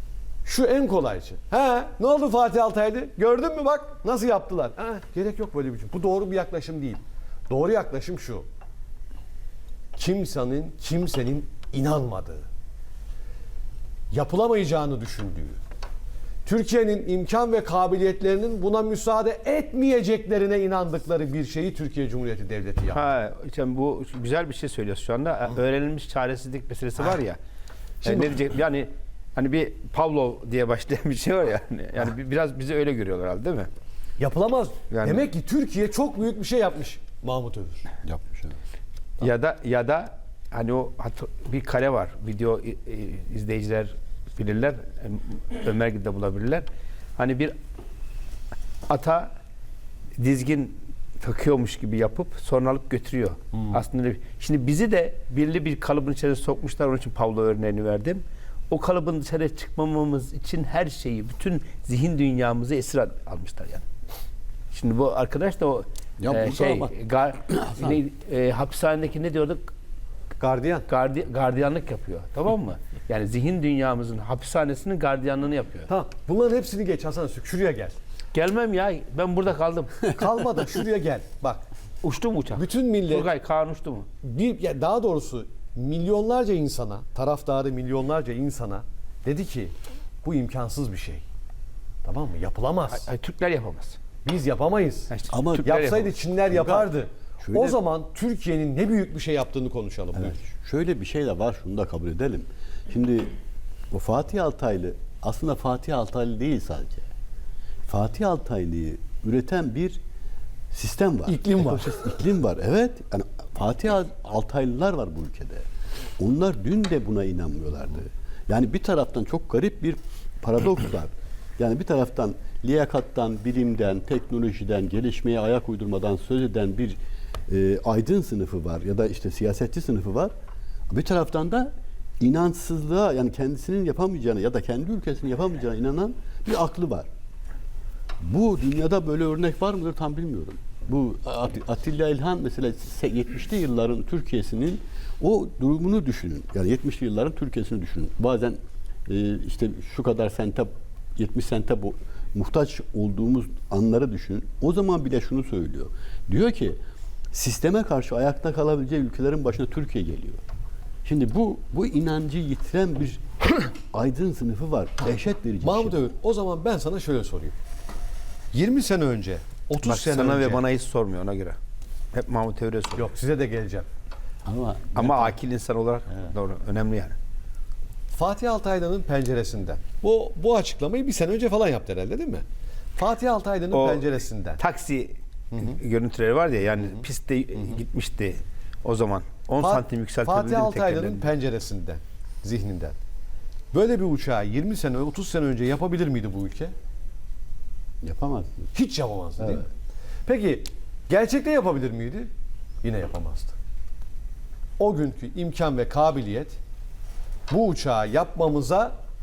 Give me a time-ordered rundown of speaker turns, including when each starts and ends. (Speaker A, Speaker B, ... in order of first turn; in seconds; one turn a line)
Speaker A: 0.4-8.4
Speaker A: 9.9-12.5
Speaker A: 14.1-15.6
Speaker A: 16.4-23.0
Speaker B: 22.9-27.4
Speaker A: 28.0-28.3
Speaker B: 28.0-33.7
Speaker A: 34.2-37.9
Speaker B: 34.9-35.2
Speaker C: 38.0-38.6
Speaker B: 39.2-47.5
Speaker B: 48.9-49.3
Speaker B: 50.2-63.8
Speaker A: 53.5-53.8
Speaker B: 64.7-69.7
Speaker C: 66.2-66.9
Speaker C: 67.6-67.9
Speaker A: 70.4-70.9
Speaker B: 70.8-75.9
Speaker A: 75.9-78.0
Speaker B: 78.3-80.0
Speaker A: 80.0-81.6
Speaker B: 82.0-84.1
Speaker A: 82.5-83.3
Speaker A: 84.2-91.2
Speaker A: 92.0-93.1
Speaker B: 92.9-94.0
Speaker A: 94.2-95.1
Speaker B: 95.1-96.1
Speaker C: 95.3-95.8
Speaker A: 95.6-100.4
Speaker C: 96.5-97.8
Speaker C: 100.2-103.3
Speaker C: 103.9-107.1
Speaker C: 107.9-110.0
Speaker C: 110.7-115.6
Speaker A: 111.2-112.2
Speaker C: 116.2-130.3
Speaker C: 130.9-137.1
Speaker C: 138.2-156.8
Speaker C: 157.3-160.4
Speaker C: 161.0-166.0
Speaker A: 165.6-167.5
Speaker A: 168.5-170.6
Speaker B: 169.8-171.6
Speaker B: 172.1-173.1
Speaker A: 172.9-173.9
Speaker C: 174.4-175.4
Speaker B: 174.9-177.1
Speaker A: 178.1-182.4
Speaker A: 182.9-184.6
Speaker B: 183.7-191.2
Speaker A: 185.5-185.8
Speaker A: 189.6-193.0
Speaker A: 193.7-196.7
Speaker C: 198.0-198.7
Speaker A: 198.7-199.7
Speaker A: 200.2-202.3
Speaker A: 202.8-203.6
Speaker A: 204.8-206.6
Speaker A: 207.5-208.9